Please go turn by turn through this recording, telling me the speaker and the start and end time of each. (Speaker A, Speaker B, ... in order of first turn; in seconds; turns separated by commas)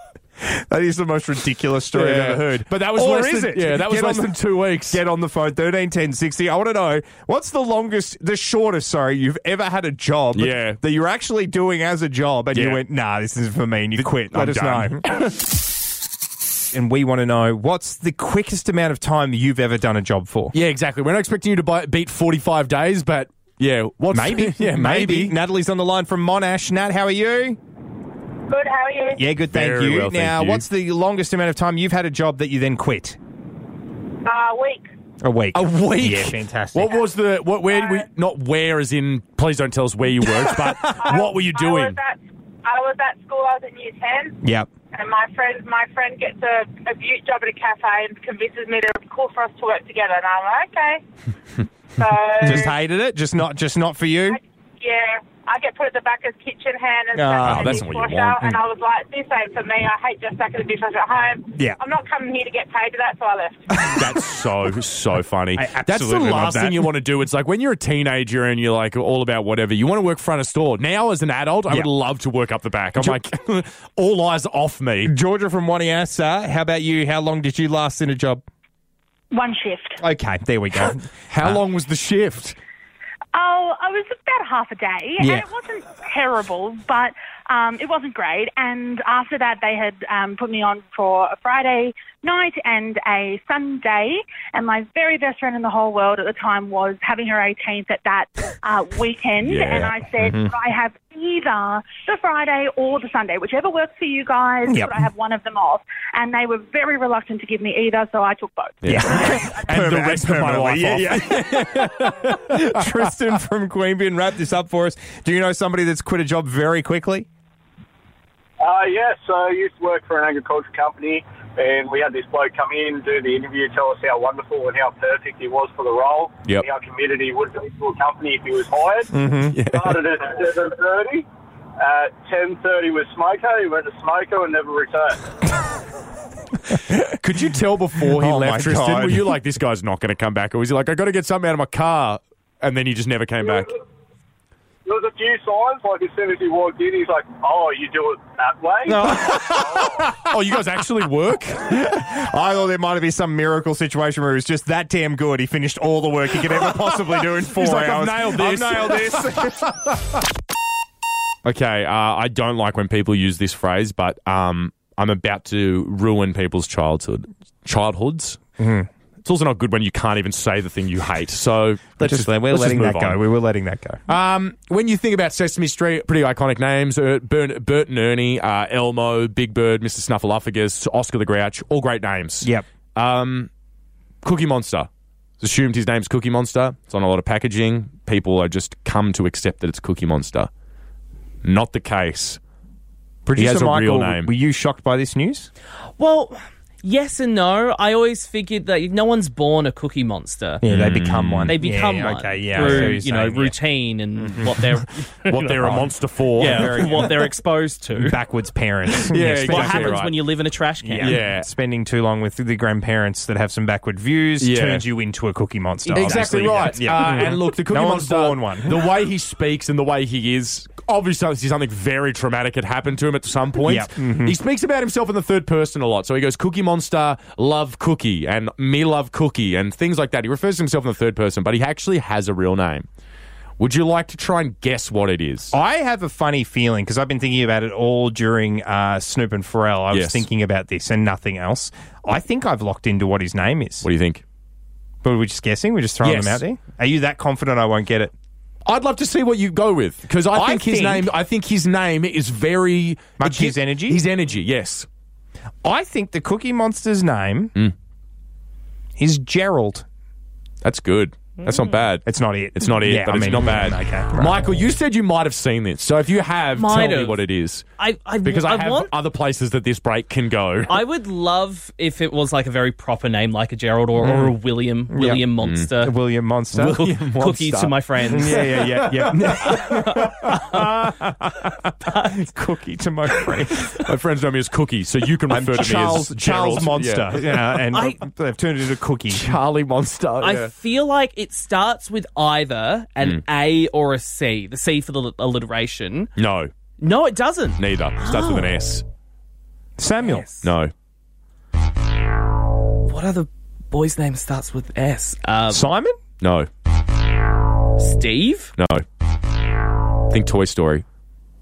Speaker A: 0.4-15.2, Speaker B: 1.9-5.0, Speaker B: 10.3-10.8, Speaker B: 12.5-12.8, Speaker B: 14.0-15.4, Speaker A: 16.7-20.5, Speaker B: 20.5-25.4, Speaker A: 24.1-27.6, Speaker C: 28.5-29.3, Speaker A: 29.2-33.2, Speaker B: 29.5-30.6, Speaker C: 34.2-34.9, Speaker A: 35.2-37.0, Speaker B: 35.5-42.0, Speaker A: 40.2-41.2, Speaker C: 41.0-44.4, Speaker A: 44.4-44.7, Speaker C: 44.9-51.0, Speaker C: 51.9-52.8, Speaker A: 52.4-54.4, Speaker C: 54.3-63.9, Speaker A: 57.1-57.9, Speaker B: 57.4-58.5, Speaker A: 63.8-64.1, Speaker B: 63.8-75.1, Speaker A: 65.6-66.9, Speaker A: 73.0-73.2, Speaker A: 75.1-78.4, Speaker D: 79.3-80.0, Speaker A: 80.0-81.6, Speaker B: 81.3-82.6, Speaker D: 83.3-109.5, Speaker A: 85.2-85.5, Speaker B: 99.4-99.9, Speaker A: 100.2-100.5, Speaker A: 104.7-105.0, Speaker B: 108.8-113.1, Speaker A: 108.9-117.3, Speaker E: 118.6-131.3, Speaker A: 129.1-129.6, Speaker B: 129.5-130.0, Speaker E: 131.8-135.2, Speaker B: 136.9-143.8, Speaker A: 137.9-139.3, Speaker E: 144.8-149.1, Speaker A: 148.9-150.3, Speaker B: 149.2-151.8, Speaker A: 151.6-159.8, Speaker B: 156.6-159.9, Speaker B: 161.4-168.4, Speaker A: 168.6-168.9, Speaker B: 169.2-173.2, Speaker A: 172.0-174.0, Speaker B: 174.1-183.5, Speaker B: 184.2-184.9, Speaker B: 185.4-190.5, Speaker B: 191.4-192.4, Speaker A: 193.2-195.5, Speaker B: 193.4-194.3, Speaker F: 196.0-200.6, Speaker A: 200.6-203.6, Speaker B: 200.6-201.6, Speaker F: 201.5-205.8, Speaker B: 202.6-203.0, Speaker A: 204.2-204.6, Speaker B: 205.2-207.1, Speaker A: 205.5-207.3, Speaker F: 206.4-208.2, Speaker A: 207.9-210.0, Speaker B: 209.0-210.2, Speaker F: 209.2-211.2, Speaker A: 210.8-218.9, Speaker B: 210.9-211.5, Speaker B: 214.4-214.9, Speaker B: 215.9-232.9, Speaker F: 216.0-216.8, Speaker A: 223.6-224.4, Speaker B: 233.6-235.5, Speaker A: 235.5-243.9, Speaker B: 239.9-240.3, Speaker B: 243.8-244.2, Speaker A: 245.0-248.1, Speaker B: 246.0-246.4, Speaker B: 248.7-254.9, Speaker A: 250.3-251.1, Speaker A: 253.2-254.0, Speaker A: 255.6-257.6, Speaker A: 259.0-259.9, Speaker B: 260.6-262.1, Speaker A: 262.1-264.4, Speaker B: 262.6-267.6, Speaker F: 266.6-267.2, Speaker F: 267.8-268.9, Speaker B: 268.2-270.8, Speaker F: 270.7-276.0, Speaker A: 274.0-274.3, Speaker A: 274.9-276.9, Speaker B: 275.4-275.7, Speaker F: 276.5-280.9, Speaker B: 276.6-280.6, Speaker A: 278.1-283.7, Speaker F: 281.8-282.3, Speaker B: 283.7-287.6, Speaker A: 285.3-289.2, Speaker F: 287.7-288.1, Speaker B: 289.1-290.5, Speaker F: 290.2-296.1, Speaker B: 296.2-296.5, Speaker F: 296.8-298.6, Speaker B: 297.6-298.8, Speaker A: 299.8-300.3, Speaker F: 300.0-300.4, Speaker B: 300.4-300.7, Speaker F: 302.9-305.7, Speaker A: 305.5-305.9, Speaker B: 306.2-306.5, Speaker F: 307.8-308.5, Speaker B: 308.6-308.8, Speaker B: 310.1-310.9